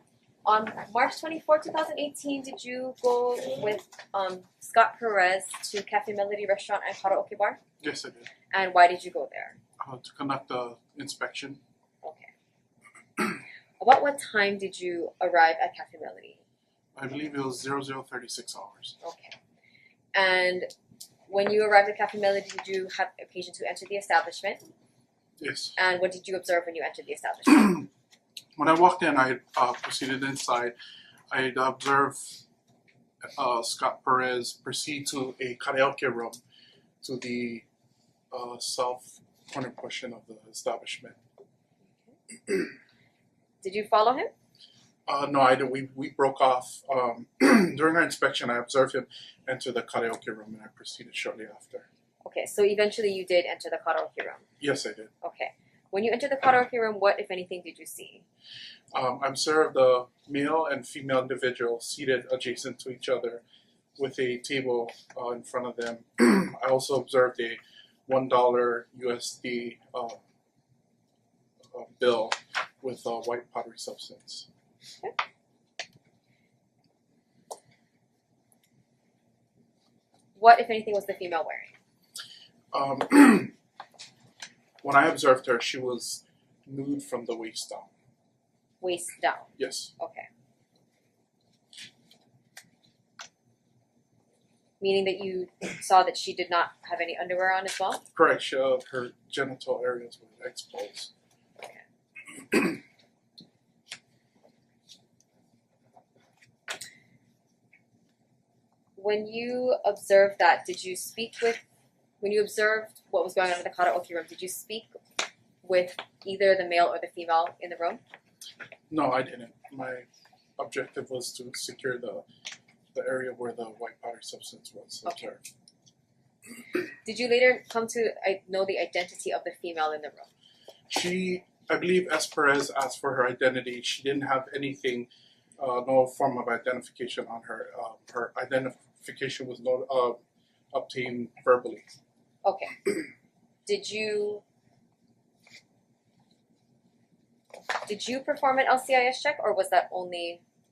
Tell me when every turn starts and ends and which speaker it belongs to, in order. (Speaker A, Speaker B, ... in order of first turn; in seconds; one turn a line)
Speaker A: 0.5-7.6
Speaker B: 7.8-8.3
Speaker A: 8.5-9.6
Speaker B: 9.8-11.6
Speaker A: 12.0-12.3
Speaker A: 13.8-16.4
Speaker B: 17.0-18.9
Speaker A: 19.0-19.4
Speaker A: 20.1-20.7
Speaker A: 21.3-24.7
Speaker B: 25.4-25.8
Speaker A: 25.8-27.9
Speaker B: 28.6-30.8
Speaker B: 31.3-32.4
Speaker B: 33.4-36.4
Speaker B: 37.0-37.6
Speaker B: 38.3-41.2
Speaker A: 43.6-44.3
Speaker B: 45.1-51.9
Speaker A: 52.2-54.5
Speaker B: 54.6-55.1
Speaker A: 55.2-58.2
Speaker B: 58.9-63.4
Speaker B: 64.0-70.2
Speaker B: 71.7-74.5
Speaker A: 80.4-81.7
Speaker B: 82.7-83.5
Speaker B: 84.8-87.9
Speaker A: 88.8-90.3
Speaker B: 89.6-89.9
Speaker A: 94.8-98.0
Speaker B: 98.2-101.1
Speaker A: 109.0-111.6
Speaker A: 112.2-114.9
Speaker A: 115.6-118.0
Speaker B: 118.9-120.1
Speaker B: 120.6-122.2
Speaker B: 122.9-125.4
Speaker A: 127.0-130.3
Speaker B: 130.9-140.2
Speaker B: 140.7-141.9
Speaker A: 142.4-142.9
Speaker A: 143.7-144.4
Speaker A: 147.9-150.4